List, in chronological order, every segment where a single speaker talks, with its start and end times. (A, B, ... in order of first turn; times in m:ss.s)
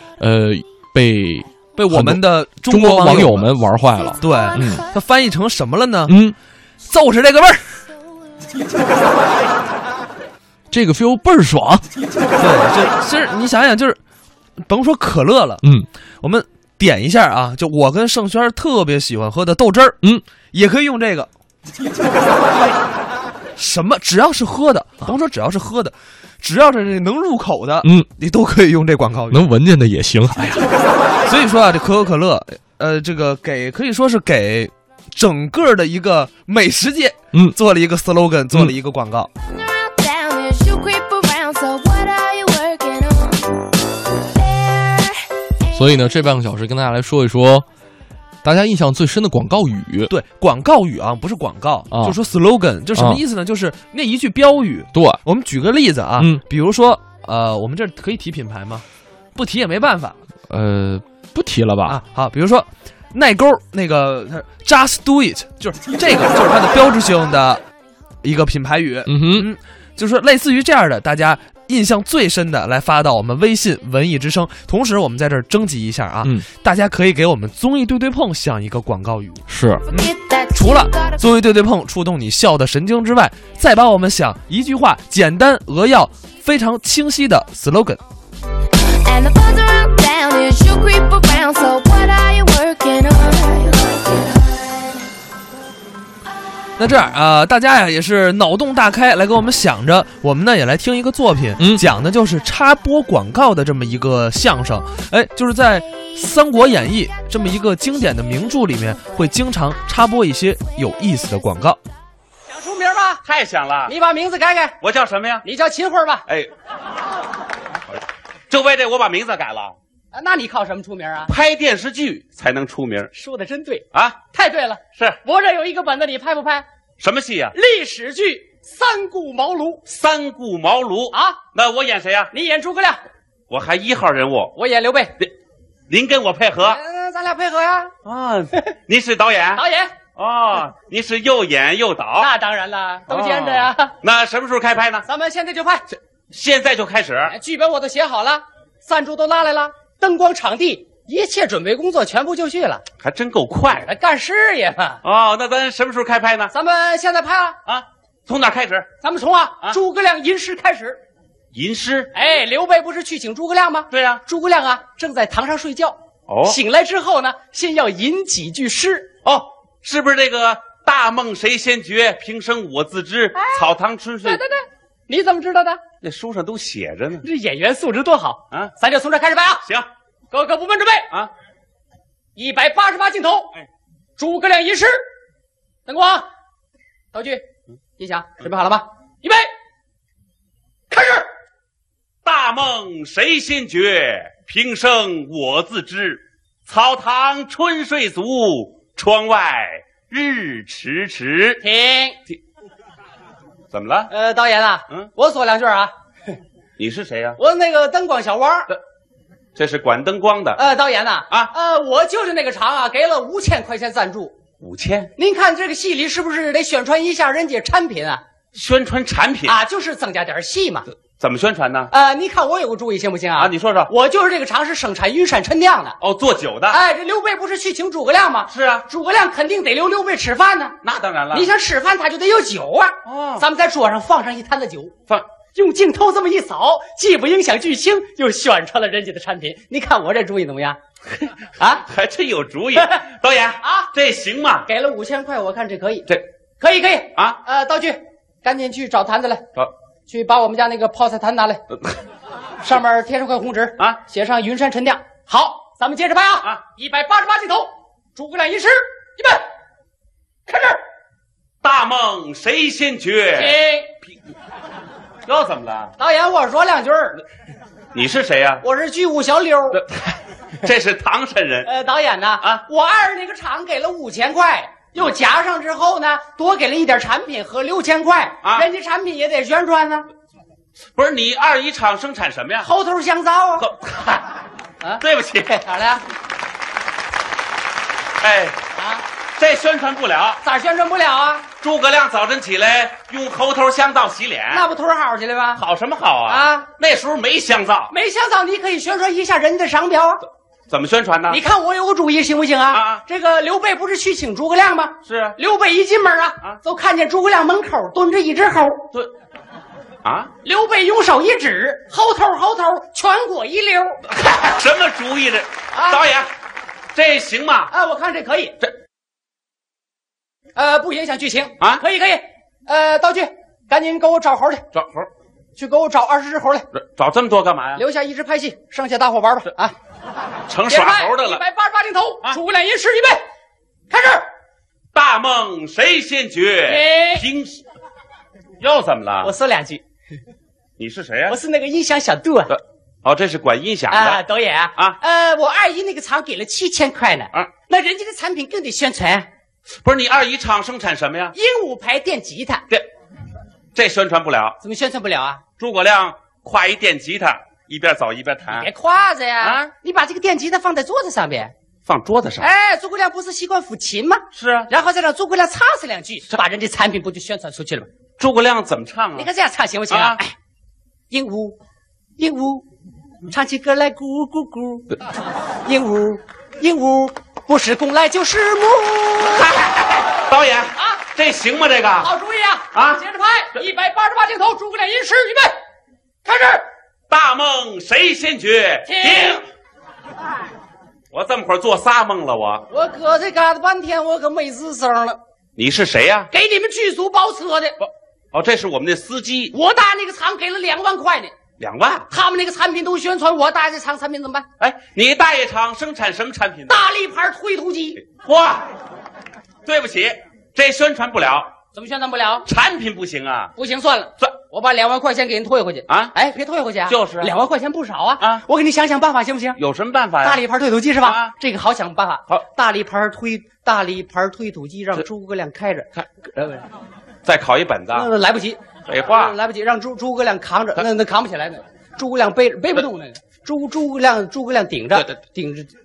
0:00.2-0:04.8 A
0:01.8-0:03.5 B
0:04.2-0:06.2 B
0:06.0-0:06.4 A
0:06.8-0:07.8 B
0:10.7-0:11.9 A
0:12.4-0:14.0 B
0:14.6-0:15.6 B
0:15.6-0:15.9 A
0:16.2-0:20.0 B
0:20.5-0:21.3 B
0:23.6-0:29.4 B
0:29.3-0:30.7 A
0:31.2-0:39.3 B
0:39.5-0:43.6 C
0:44.4-0:45.1 C
0:45.7-0:47.7 A
0:48.4-0:50.1 A
0:50.1-0:58.8 B
0:51.9-0:52.2 A
0:52.9-0:53.2 A
0:54.9-0:55.2 A
0:56.2-0:56.4 A
0:59.4-1:00.2 B
1:00.5-1:02.0 A
1:01.9-1:07.6 B
1:08.2-1:28.0 B
1:09.0-1:09.5 A
1:19.5-1:19.8 A
1:19.9-1:21.2 C
1:28.9-1:34.6 C
1:36.8-1:51.8 B
1:41.6-1:41.8 A
1:52.5-1:53.2 D
1:53.2-1:53.9 E
1:53.9-1:54.8 D
1:54.8-1:55.4 E
1:55.4-1:56.2 D
1:58.5-1:59.8 E
2:00.1-2:01.3 D
2:01.3-2:03.1 E
2:03.1-2:06.6 D
2:07.0-2:07.5 E
2:07.5-2:09.8 D
2:09.9-2:12.3 E
2:11.1-2:11.4 D
2:12.3-2:13.0 D
2:13.5-2:14.5 E
2:14.6-2:15.1 D
2:15.9-2:16.8 E
2:16.6-2:17.9 D
2:18.0-2:19.6 E
2:19.6-2:19.9 D
2:20.2-2:22.3 E
2:22.2-2:23.9 D
2:23.1-2:25.0 E
2:25.0-2:25.8 D
2:26.3-2:27.3 E
2:27.2-2:32.8 D
2:33.0-2:33.9 E
2:33.8-2:35.0 D
2:35.0-2:36.5 E
2:36.5-2:37.6 D
2:37.7-2:38.9 E
2:39.0-2:41.0 D
2:41.5-2:42.1 E
2:42.1-2:49.1 D
2:43.9-2:44.2 E
2:46.3-2:46.6 E
2:49.2-2:54.4 E
2:53.3-2:53.7 D
2:54.2-2:55.8 D
2:56.0-2:57.2 E
2:57.2-2:59.6 D
3:00.3-3:01.1 D
3:02.4-3:03.5 D
3:04.2-3:05.0 D
3:05.9-3:06.3 D
3:07.1-3:07.4 D
3:08.0-3:09.5 D
3:10.9-3:11.3 D
3:12.2-3:21.6 E
3:21.6-3:22.2 D
3:23.7-3:24.1 E
3:24.1-3:25.9 D
3:26.8-3:27.4 E
3:27.4-3:28.7 D
3:29.6-3:30.6 E
3:30.6-3:34.3 D
3:34.6-3:35.1 E
3:35.2-3:38.2 D
3:38.5-3:39.6 E
3:39.4-3:40.9 D
3:41.2-3:41.9 E
3:41.9-3:46.0 D
3:43.4-3:43.9 E
3:46.0-3:46.8 E
3:46.7-3:50.8 D
3:48.5-3:48.8 E
3:50.8-3:51.5 E
3:51.3-3:54.9 D
3:53.0-3:53.4 E
3:55.6-4:00.8 D
4:01.6-4:01.8 D
4:01.8-4:04.7 E
4:02.8-4:03.0 D
4:03.6-4:03.9 D
4:04.7-4:06.1 D
4:06.6-4:09.4 D
4:10.1-4:11.6 D
4:12.6-4:19.4 D
4:20.5-4:20.8 D
4:21.6-4:23.6 E
4:23.4-4:23.9 D
4:25.2-4:25.9 E
4:26.0-4:27.2 D
4:27.9-4:28.6 E
4:28.6-4:29.8 D
4:30.6-4:31.7 E
4:31.6-4:40.1 D
4:40.9-4:42.7 E
4:42.6-4:43.7 D
4:43.6-4:44.3 E
4:44.8-4:46.0 D
4:45.0-4:45.6 E
4:48.2-4:48.6 E
4:48.8-4:49.0 D
4:49.4-4:50.4 E
4:50.4-4:51.4 D
4:51.6-4:54.6 E
4:54.5-4:55.6 D
4:55.6-4:57.9 E
4:56.3-4:56.7 D
4:57.9-5:00.2 D
5:00.7-5:01.4 E
5:01.3-5:08.9 D
5:02.7-5:03.0 E
5:05.1-5:05.4 E
5:10.0-5:10.3 E
5:10.4-5:14.0 D
5:14.2-5:16.3 E
5:15.7-5:16.1 D
5:16.9-5:17.7 E
5:17.7-5:18.6 D
5:20.6-5:24.6 D
5:24.7-5:25.1 E
5:25.6-5:26.7 D
5:26.8-5:27.8 E
5:27.8-5:29.7 D
5:30.5-5:31.4 E
5:30.7-5:33.2 D
5:33.9-5:34.3 D
5:34.9-5:37.6 E
5:36.7-5:37.2 D
5:38.6-5:39.3 E
5:39.2-5:39.8 D
5:40.8-5:41.4 E
5:41.3-5:42.5 D
5:42.5-5:44.2 E
5:43.9-5:49.3 D
5:49.8-5:51.3 E
5:51.3-5:52.6 D
5:53.8-5:54.6 E
5:54.6-5:55.4 D
5:55.6-5:58.7 E
5:58.5-6:01.5 D
5:59.4-5:59.7 E
6:01.9-6:02.5 E
6:02.4-6:07.9 D
6:04.3-6:04.7 E
6:08.2-6:09.3 E
6:09.2-6:10.4 D
6:09.9-6:10.2 E
6:11.1-6:11.6 D
6:12.2-6:12.6 D
6:13.3-6:14.9 D
6:15.7-6:19.5 D
6:19.2-6:22.1 E
6:22.0-6:25.6 D
6:22.7-6:23.0 E
6:26.2-6:26.6 D
6:27.1-6:29.4 E
6:28.9-6:29.4 D
6:31.1-6:32.7 E
6:32.7-6:35.2 D
6:35.6-6:36.3 E
6:36.3-6:37.8 D
6:37.8-6:39.5 E
6:39.5-6:41.3 D
6:41.6-6:42.1 E
6:42.1-6:44.4 D
6:44.6-6:46.8 E
6:46.7-6:48.0 D
6:48.0-6:48.7 E
6:49.6-6:51.5 E
6:51.7-6:52.5 D
6:52.5-6:53.5 E
6:53.6-6:59.6 D
6:55.9-6:56.1 E
6:56.9-6:57.3 E
6:59.6-7:00.4 E
7:00.2-7:06.6 D
7:01.0-7:01.3 E
7:07.2-7:08.1 E
7:07.9-7:15.7 D
7:08.9-7:09.4 E